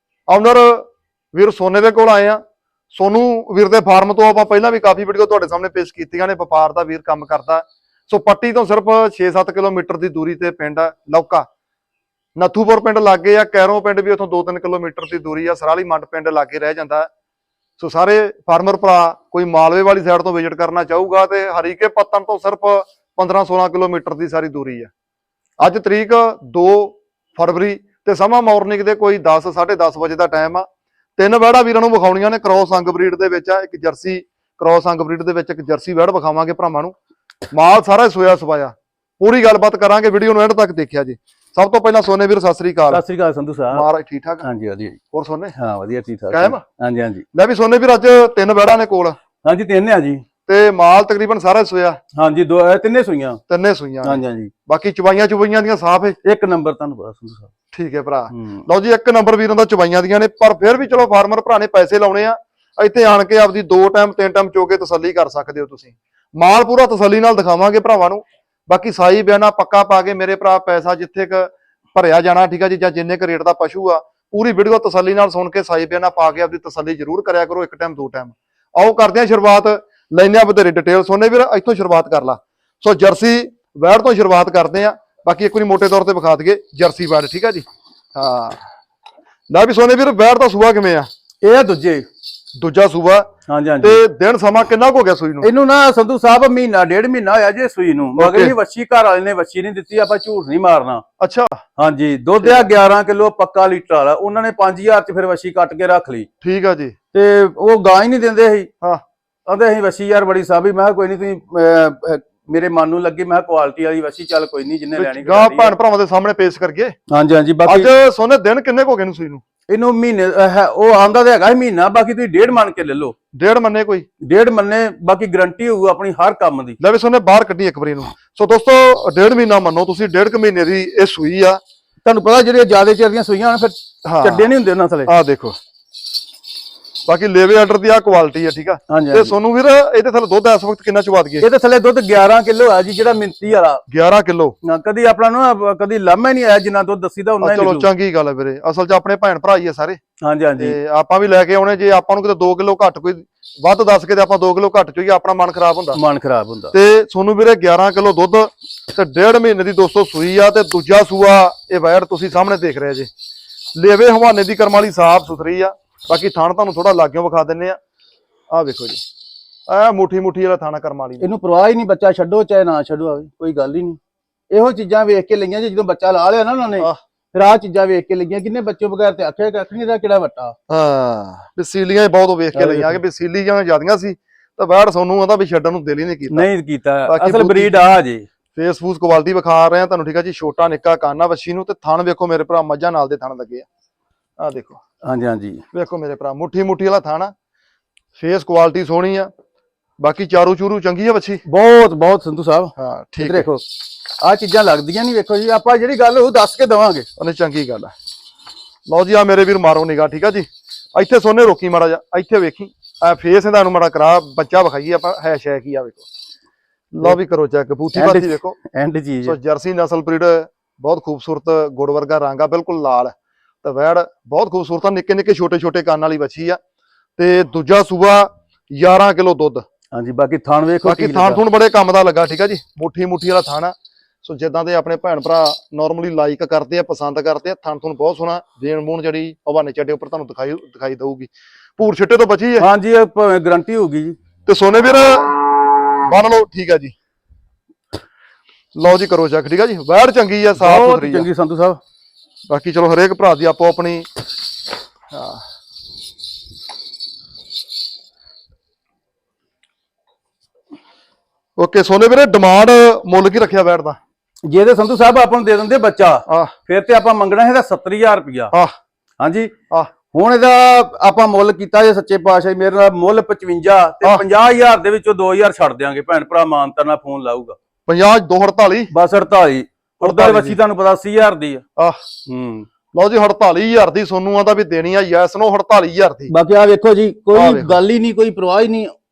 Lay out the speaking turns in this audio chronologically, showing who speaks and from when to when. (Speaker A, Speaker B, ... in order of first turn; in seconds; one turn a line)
Speaker A: 0.3-11.5
Speaker A: 12.4-17.1
Speaker A: 17.8-24.9
Speaker A: 25.6-30.7
Speaker A: 31.2-37.0
Speaker A: 37.5-43.0
Speaker B: 42.9-43.9
Speaker A: 43.7-44.5
Speaker B: 44.4-45.0
Speaker A: 45.1-45.5
Speaker B: 45.6-47.2
Speaker A: 46.3-46.6
Speaker A: 47.3-49.2
Speaker B: 49.4-50.2
Speaker A: 50.5-52.0
Speaker B: 52.2-53.4
Speaker A: 53.5-56.2
Speaker B: 54.0-54.5
Speaker B: 56.2-57.5
Speaker A: 57.7-88.6
Speaker B: 58.3-58.6
Speaker A: 89.5-91.1
Speaker B: 91.4-92.1
Speaker A: 92.6-93.3
Speaker B: 93.5-94.0
Speaker A: 93.8-95.5
Speaker B: 95.4-101.0
Speaker A: 98.2-98.5
Speaker A: 101.2-101.6
Speaker B: 101.8-106.3
Speaker A: 102.4-102.7
Speaker A: 106.4-106.9
Speaker B: 107.1-108.7
Speaker B: 109.5-115.7
Speaker A: 115.0-117.0
Speaker B: 117.1-117.9
Speaker A: 117.7-119.4
Speaker B: 119.7-123.2
Speaker A: 123.3-124.1
Speaker B: 124.2-126.8
Speaker A: 126.8-131.6
Speaker B: 132.1-135.1
Speaker A: 134.1-134.5
Speaker A: 135.1-135.6
Speaker A: 137.1-141.5
Speaker B: 138.9-139.3
Speaker B: 141.4-143.8
Speaker A: 143.9-144.5
Speaker B: 144.6-147.9
Speaker A: 147.4-150.0
Speaker B: 150.2-150.8
Speaker A: 150.6-156.0
Speaker B: 155.9-156.7
Speaker A: 156.7-163.1
Speaker A: 163.8-167.8
Speaker A: 168.5-169.0
Speaker A: 169.7-171.3
Speaker B: 171.2-174.0
Speaker B: 174.5-180.6
Speaker A: 180.7-186.5
Speaker B: 182.6-183.0
Speaker B: 186.3-188.3
Speaker A: 187.1-187.8
Speaker A: 188.5-193.7
Speaker A: 194.4-194.8
Speaker B: 195.0-195.6
Speaker A: 195.7-197.3
Speaker A: 198.2-199.3
Speaker A: 200.0-201.4
Speaker B: 201.4-203.6
Speaker A: 202.8-203.5
Speaker B: 204.2-207.1
Speaker A: 207.2-207.9
Speaker A: 208.9-216.1
Speaker A: 216.9-218.6
Speaker B: 217.9-219.4
Speaker A: 219.2-223.1
Speaker A: 223.6-226.6
Speaker A: 227.2-229.6
Speaker B: 229.9-231.4
Speaker A: 230.8-242.7
Speaker B: 242.6-244.2
Speaker A: 244.5-245.4
Speaker A: 246.1-246.9
Speaker A: 248.8-251.3
Speaker B: 250.6-251.8
Speaker A: 252.5-254.1
Speaker A: 255.1-255.4
Speaker A: 261.6-264.0
Speaker B: 264.5-268.5
Speaker A: 266.3-266.5
Speaker B: 269.2-269.5
Speaker B: 270.1-277.6
Speaker A: 277.9-278.9
Speaker B: 278.9-281.6
Speaker A: 280.0-280.6
Speaker B: 282.3-282.7
Speaker A: 282.9-286.3
Speaker B: 286.3-288.9
Speaker A: 287.3-287.8